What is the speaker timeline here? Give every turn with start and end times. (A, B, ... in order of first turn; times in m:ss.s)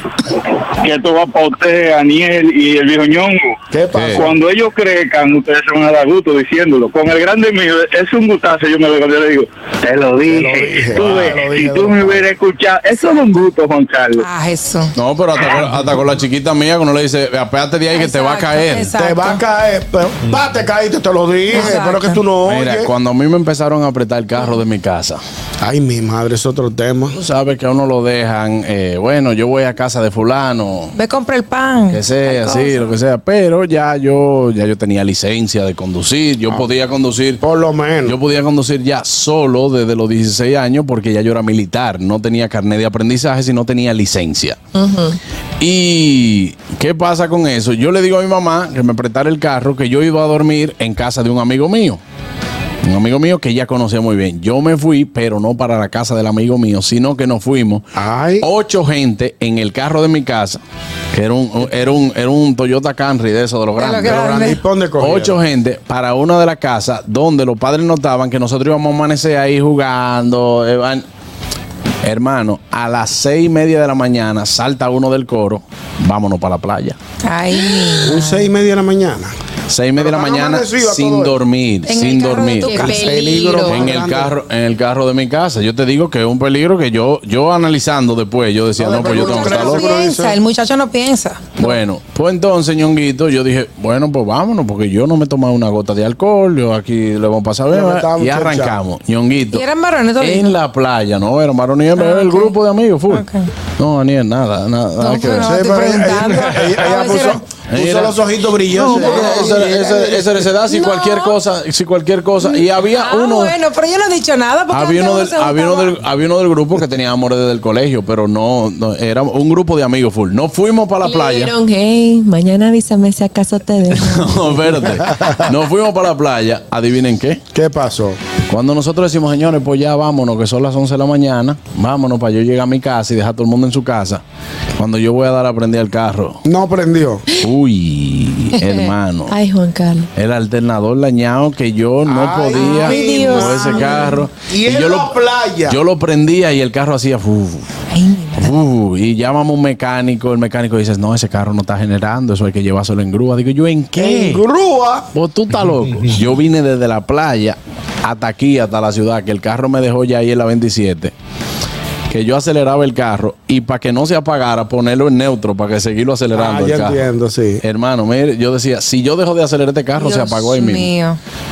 0:00.8-0:03.6 A
0:03.7-0:04.3 B
0:04.0-0:04.3 C
0:04.1-0:14.2 A
0:10.3-0:12.2 B
0:14.2-0:14.9 D
0:15.0-0:18.9 C
0:18.0-0:19.4 D
0:19.0-0:22.9 B
0:21.5-0:22.2 D
0:22.5-0:25.2 C
0:25.6-0:27.2 B
0:27.2-0:30.9 C
0:31.0-0:32.8 D
0:31.9-0:37.4 C
0:37.4-0:38.2 B
0:38.1-0:44.6 C
0:44.8-0:45.2 E
0:45.6-0:52.0 C
0:52.8-0:57.9 C
0:58.0-0:58.5 B
0:58.4-1:00.6 C
1:01.1-1:04.4 C
1:03.8-1:04.6 D
1:04.0-1:05.4 B
1:05.0-1:11.0 C
1:12.0-1:17.0 C
1:17.2-1:18.5 D
1:18.0-1:19.3 B
1:19.7-1:22.9 C
1:20.0-1:21.4 B
1:21.9-1:23.1 D
1:22.7-1:23.8 E
1:22.8-1:24.3 B
1:23.6-1:29.9 C
1:28.8-1:30.4 B
1:29.0-1:31.8 D
1:31.6-1:39.6 C
1:37.7-1:38.8 B
1:39.5-1:40.5 D
1:40.2-1:43.3 C
1:42.0-1:42.5 D
1:43.1-1:43.5 D
1:43.8-1:45.6 C
1:45.0-1:47.4 D
1:45.3-1:50.3 B
1:47.7-1:48.2 C
1:48.7-1:53.6 C
1:48.8-1:49.5 D
1:50.7-1:51.3 D
1:52.4-1:55.9 D
1:54.7-2:01.5 C
2:01.0-2:04.6 E
2:03.9-2:07.4 C
2:07.5-2:08.2 B
2:08.5-2:14.2 C
2:14.8-2:16.4 C
2:16.4-2:17.2 B
2:17.4-2:19.4 C
2:18.6-2:20.1 E
2:20.2-2:25.1 C
2:22.1-2:25.8 B
2:22.6-2:24.1 D
2:25.7-2:27.7 C
2:27.9-2:28.5 D
2:28.4-2:34.4 C
2:34.0-2:35.1 B
2:35.1-2:41.1 C
2:42.1-2:47.0 C
2:46.3-2:47.6 B
2:47.6-2:50.9 C
2:50.0-2:51.2 D